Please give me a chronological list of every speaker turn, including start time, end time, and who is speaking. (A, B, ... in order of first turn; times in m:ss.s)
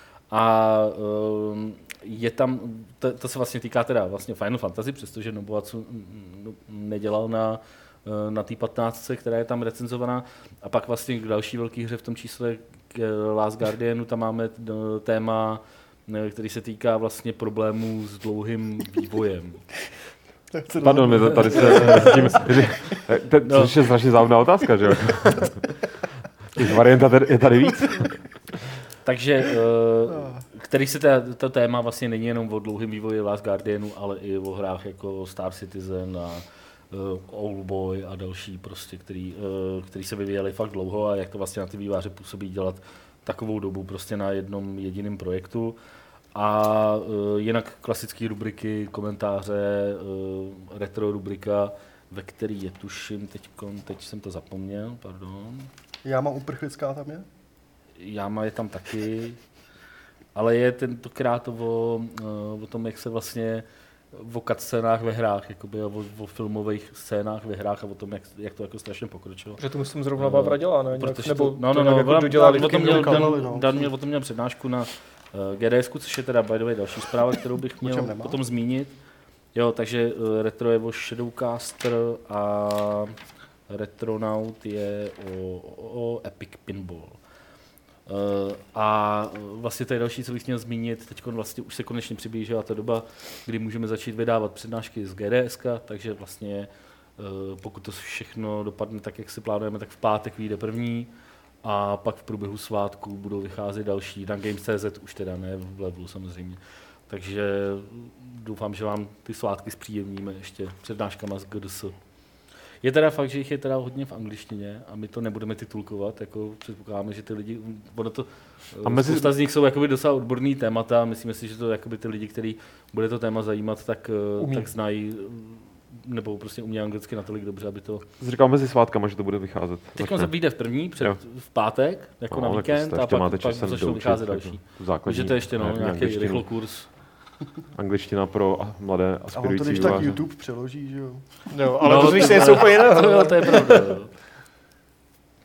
0:00.3-0:19.6 A
0:20.5-0:22.5 B
0:20.8-0:25.7 C
0:21.6-0:22.1 A
0:23.4-0:23.7 A
0:26.6-0:28.1 C
0:29.0-0:45.8 A
0:46.3-0:55.7 A
0:56.0-0:57.2 B
0:58.0-0:59.4 A
1:00.3-1:09.6 A
1:09.6-1:13.3 D
1:10.2-1:18.9 A
1:12.6-1:13.9 B
1:17.8-1:18.4 B
1:19.6-1:23.2 A
1:23.7-1:27.2 A
1:28.1-1:41.1 A
1:41.6-1:51.9 A
1:52.8-2:08.0 A
1:58.8-1:59.3 C
2:04.4-2:04.7 D
2:08.2-2:10.3 C
2:10.0-2:16.9 A
2:12.3-2:16.5 C
2:17.8-2:20.2 C
2:19.3-2:21.2 B
2:21.5-2:23.9 D
2:21.8-2:24.1 A